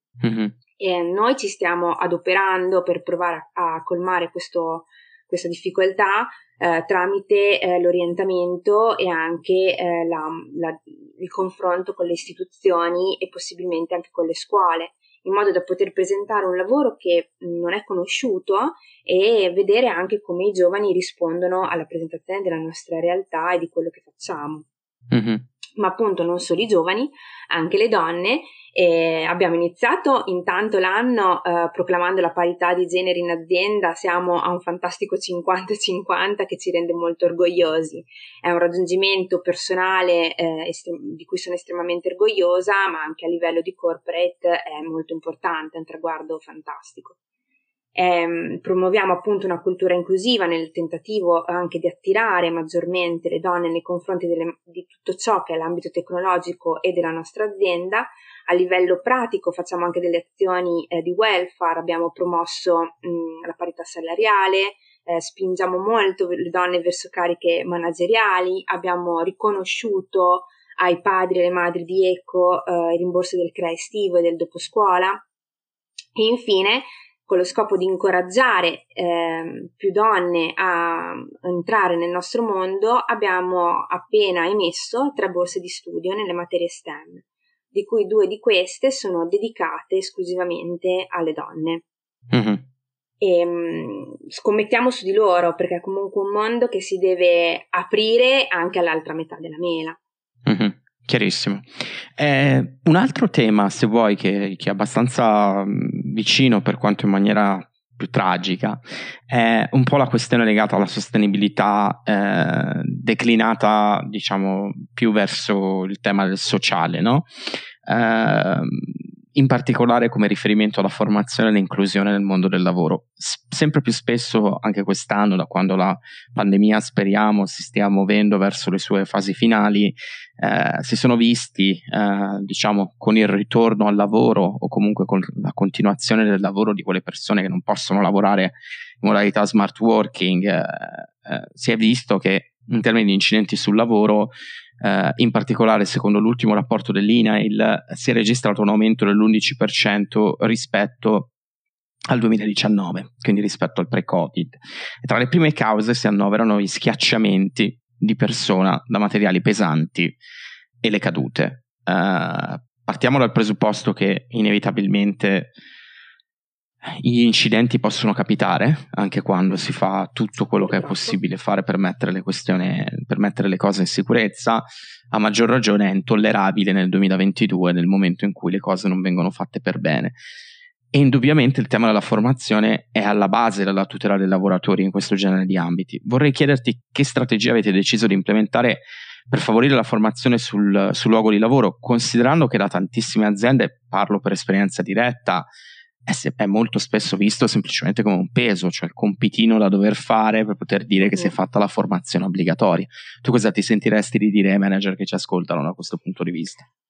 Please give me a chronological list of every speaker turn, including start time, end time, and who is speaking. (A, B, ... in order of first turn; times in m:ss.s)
0:00.2-0:00.6 A
0:00.8-0:24.6 B
0:25.1-0:25.4 A
0:25.8-0:47.2 B
0:48.0-1:15.2 B
1:16.2-1:31.8 B
1:32.3-1:32.6 A
1:33.2-1:40.0 B
1:40.5-1:57.3 A
1:57.9-2:31.3 A
2:32.1-2:40.2 A
2:40.8-2:45.5 A
2:46.9-3:00.2 A
2:50.6-2:51.2 B
3:00.9-3:15.5 A
3:16.1-3:26.7 A
3:21.0-3:21.4 B